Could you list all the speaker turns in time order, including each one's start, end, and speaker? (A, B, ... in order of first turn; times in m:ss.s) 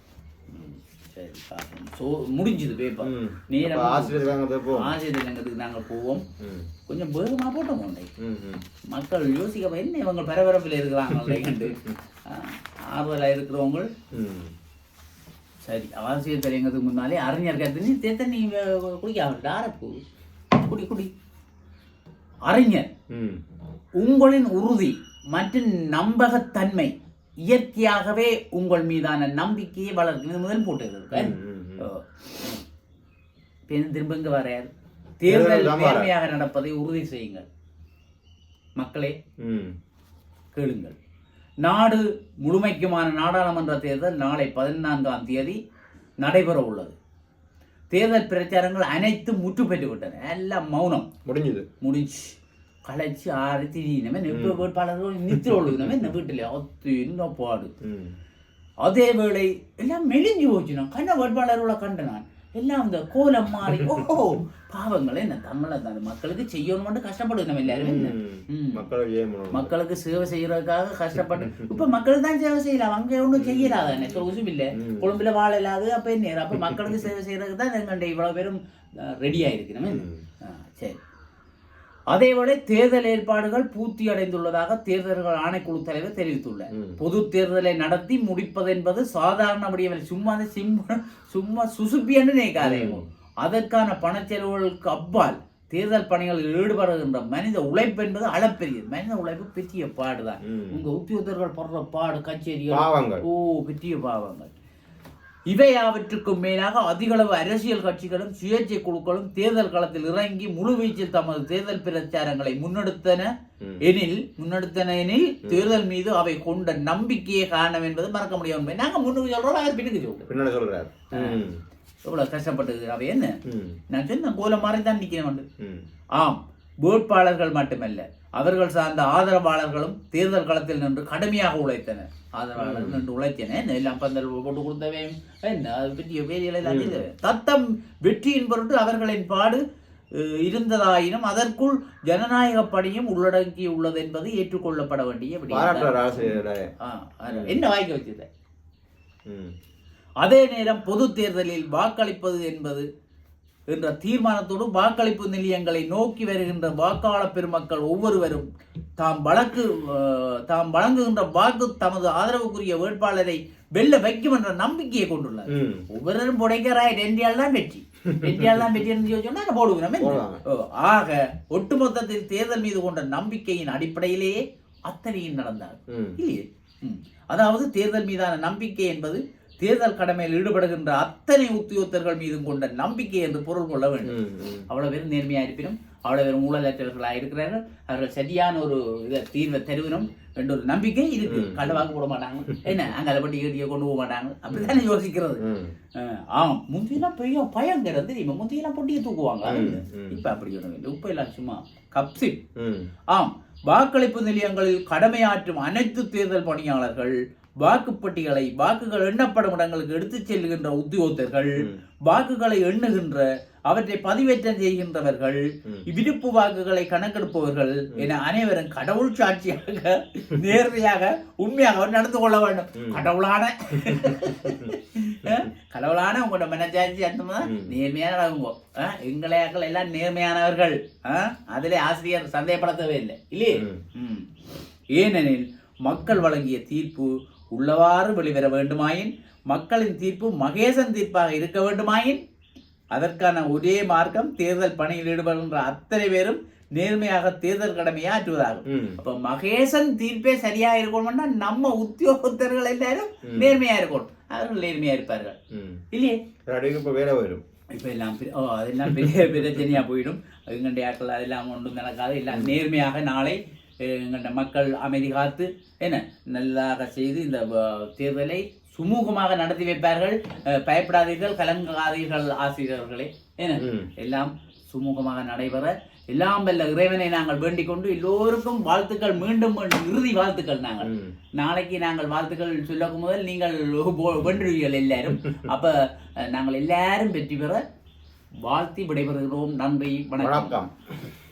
0:00.5-0:06.2 A
0:03.0-0:05.0 B
0:06.4-0:06.7 B
0:06.9-0:08.1 A
0:08.2-0:08.6 B
0:08.9-0:13.9 A
0:11.1-0:12.0 B
0:14.1-0:14.5 B
0:15.6-0:20.0 A
0:20.5-0:21.1 A
0:22.5-0:22.9 A
0:23.1-0:23.4 B
0:24.0-0:26.9 A
0:27.4-0:32.6 A
0:31.1-0:31.8 B
0:33.7-0:37.4 A
0:35.3-0:36.1 B
0:38.8-0:39.2 A
0:39.4-0:39.7 B
0:40.5-0:40.9 A
0:41.6-0:45.6 A
0:46.2-0:46.9 A
0:47.9-0:51.1 A
0:51.2-0:51.6 B
0:51.8-0:57.7 A
0:54.3-0:54.6 B
0:55.3-0:56.1 B
0:57.8-0:58.2 B
0:58.8-1:08.8 A
1:07.6-1:09.7 B
1:09.5-1:21.0 A
1:11.4-1:11.9 B
1:13.4-1:15.1 B
1:16.6-1:17.0 B
1:19.8-1:20.2 B
1:22.1-1:44.5 A
1:26.7-1:27.0 B
1:32.6-1:33.0 B
1:40.4-1:40.8 B
1:42.7-1:43.2 B
1:45.5-1:53.3 A
1:53.8-2:00.3 A
2:00.3-2:01.6 B
2:01.1-2:01.4 A
2:02.0-2:03.4 A
2:03.4-2:03.8 B
2:03.9-2:05.4 A
2:05.6-2:05.8 B
2:06.1-2:19.6 A
2:12.6-2:13.0 B
2:16.6-2:17.0 B
2:20.1-2:28.3 A
2:25.5-2:26.7 B
2:27.3-2:27.6 B
2:29.3-2:29.5 B
2:30.2-2:32.9 A
2:33.7-2:38.5 A
2:39.0-3:04.2 A
2:45.5-2:45.8 B
2:48.1-2:48.8 B
2:50.0-2:50.4 B
2:55.9-2:56.2 B
3:04.0-3:04.6 B
3:04.7-3:15.4 A
3:11.2-3:11.9 B
3:12.5-3:12.9 B
3:14.5-3:14.8 B
3:15.4-3:15.7 B
3:16.0-3:22.4 A
3:19.4-3:20.2 B
3:22.6-3:22.9 B
3:23.1-3:54.3 A
3:42.8-3:43.0 B
3:43.8-3:44.7 B
3:47.4-3:47.8 B
3:53.6-3:53.8 B
3:55.0-4:02.2 A
4:02.9-4:15.4 A
4:08.7-4:09.0 B
4:13.2-4:13.6 B
4:15.5-4:15.8 B
4:15.9-4:16.2 A
4:16.5-4:17.4 B
4:17.7-4:47.6 A
4:33.6-4:33.9 B
4:40.8-4:41.1 B
4:48.4-4:50.6 A
4:50.2-4:51.1 B